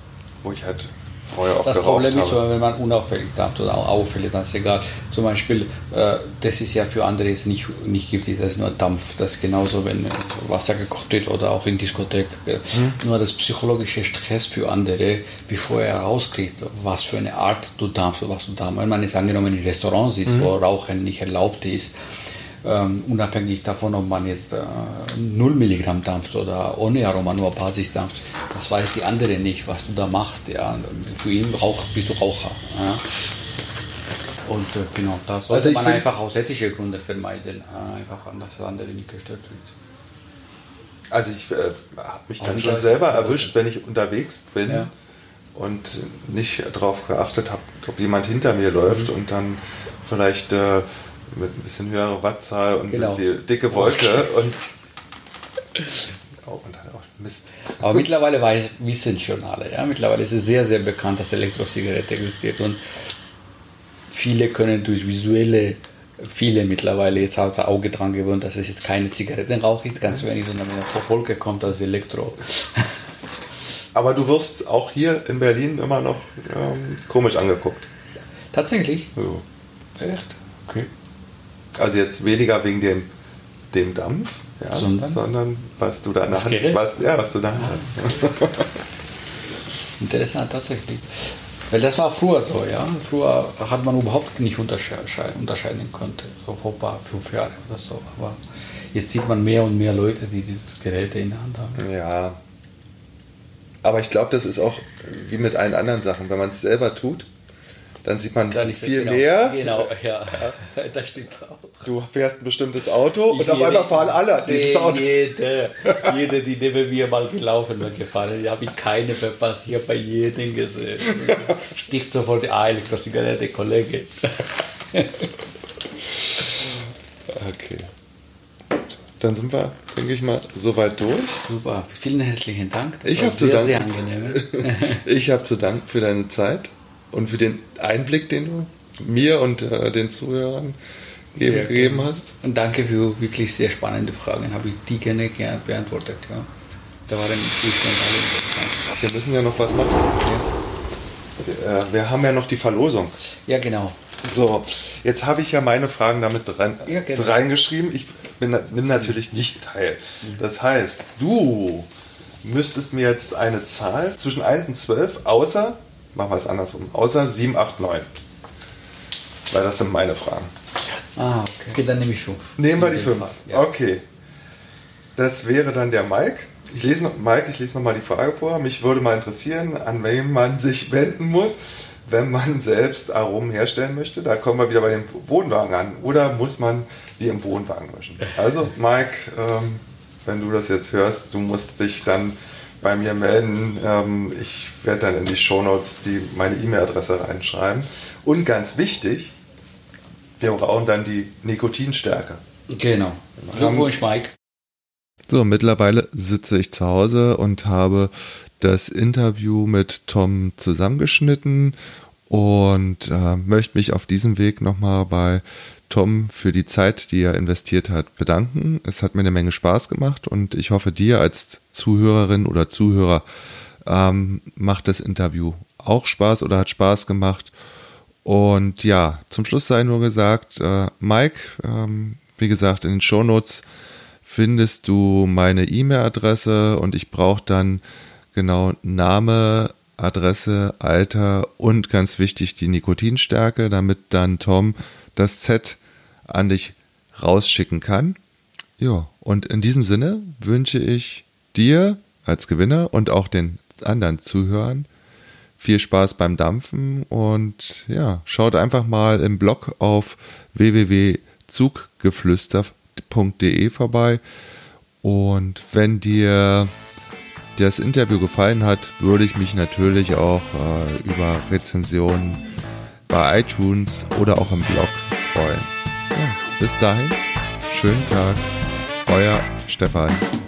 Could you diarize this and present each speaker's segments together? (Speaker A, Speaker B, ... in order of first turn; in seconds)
Speaker A: 0.4-2.4, 20.3-20.5, 35.5-36.0, 41.1-44.9, 45.5-54.6, 56.4-58.0, 73.9-77.9, 79.2-79.4, 81.7-83.1, 83.7-88.7, 101.8-102.4, 103.8-107.3, 108.0-110.5, 111.8-115.1, 115.9-116.1, 127.3-127.9, 129.2-131.4, 133.0-140.8, 141.3-142.3, 149.0-150.2, 151.4-153.2, 154.2-161.9, 162.4-168.1, 169.5-170.5, 172.6-174.0, 175.2-199.3, 200.4-202.4, 203.4-203.9, 205.3-211.8, 212.3-223.2, 223.8-227.5, 228.2-233.6, 234.2-237.8, 238.3-248.2, 248.8-254.9, 255.6-264.2, 265.0-266.7, 267.6-272.4, 273.1-278.5, 279.1-280.2
Speaker B: 1.6-21.9, 22.6-33.1, 34.5-39.7, 42.4-43.5, 52.9-54.3, 57.7-62.8, 64.1-73.1, 78.5-79.1, 80.0-80.9, 84.7-85.2, 86.3-86.8, 87.6-88.2, 90.0-98.4, 98.9-101.8, 108.5-111.9, 113.3-125.3, 131.3-135.1, 141.4-146.5, 147.1-148.8, 153.5-154.1, 156.8-157.4, 170.8-173.6, 202.7-204.3